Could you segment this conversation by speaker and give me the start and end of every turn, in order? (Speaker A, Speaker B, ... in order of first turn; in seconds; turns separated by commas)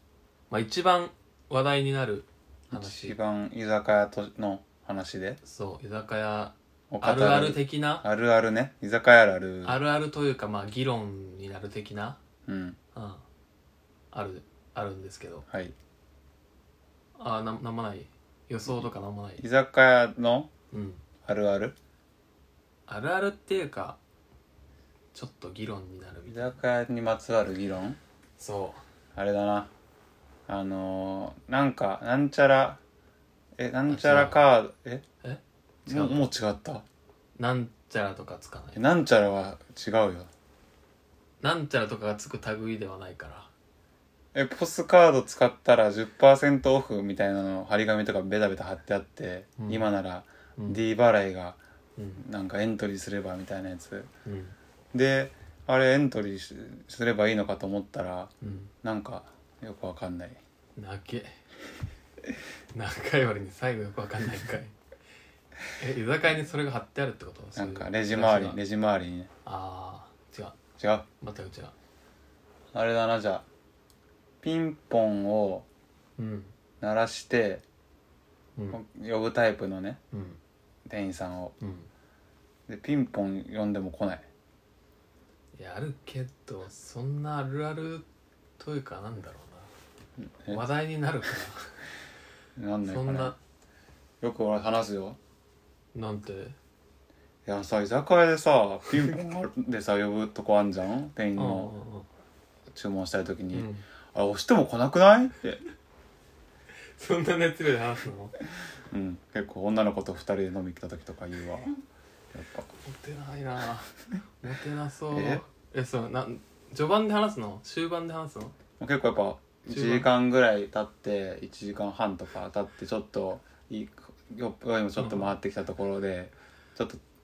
Speaker A: 0.5-3.2, Speaker B: 2.7-5.4, Speaker A: 5.4-8.1, Speaker B: 6.9-9.8, Speaker A: 9.7-12.2, Speaker B: 12.5-12.8, Speaker A: 12.9-13.2, Speaker A: 14.1-15.4, Speaker B: 15.5-15.8, Speaker A: 17.2-19.4, Speaker B: 18.7-20.5, Speaker A: 20.7-21.0, Speaker B: 21.2-21.8, Speaker A: 22.9-24.0, Speaker A: 25.1-26.6, Speaker B: 26.3-28.0, Speaker A: 28.4-28.8, Speaker B: 29.1-29.7, Speaker B: 30.5-32.8, Speaker B: 33.6-35.0, Speaker A: 33.9-34.4, Speaker A: 35.2-36.2, Speaker B: 35.9-36.9, Speaker A: 37.4-38.8, Speaker B: 38.8-40.3, Speaker A: 41.4-43.5, Speaker B: 44.3-51.6, Speaker A: 49.6-49.9, Speaker A: 52.0-52.2, Speaker B: 52.2-54.1, Speaker A: 54.2-54.5, Speaker B: 54.9-58.3, Speaker A: 58.4-58.7, Speaker B: 58.8-60.4, Speaker A: 60.8-61.4, Speaker A: 62.7-64.8, Speaker A: 65.8-68.6, Speaker B: 67.6-69.3, Speaker A: 69.5-70.6, Speaker B: 70.8-71.1, Speaker A: 71.2-71.7, Speaker B: 72.7-73.5, Speaker B: 74.4-75.7, Speaker A: 76.2-76.5, Speaker B: 76.8-77.6, Speaker B: 78.7-80.0, Speaker A: 80.1-80.4, Speaker B: 80.9-81.6, Speaker A: 81.6-81.9, Speaker B: 82.7-84.3, Speaker A: 85.5-88.1, Speaker A: 88.6-89.7, Speaker B: 90.2-90.6, Speaker A: 90.5-91.8, Speaker B: 92.6-93.3, Speaker A: 92.8-93.4, Speaker B: 94.2-95.2, Speaker A: 95.9-96.6, Speaker B: 97.5-101.7, Speaker A: 101.4-102.1, Speaker B: 102.7-105.6, Speaker A: 103.5-103.8, Speaker A: 107.0-108.4, Speaker B: 108.9-111.7, Speaker B: 112.3-112.7, Speaker A: 112.8-118.5, Speaker B: 115.1-115.4, Speaker B: 118.8-127.0, Speaker A: 119.7-120.1, Speaker A: 125.0-125.3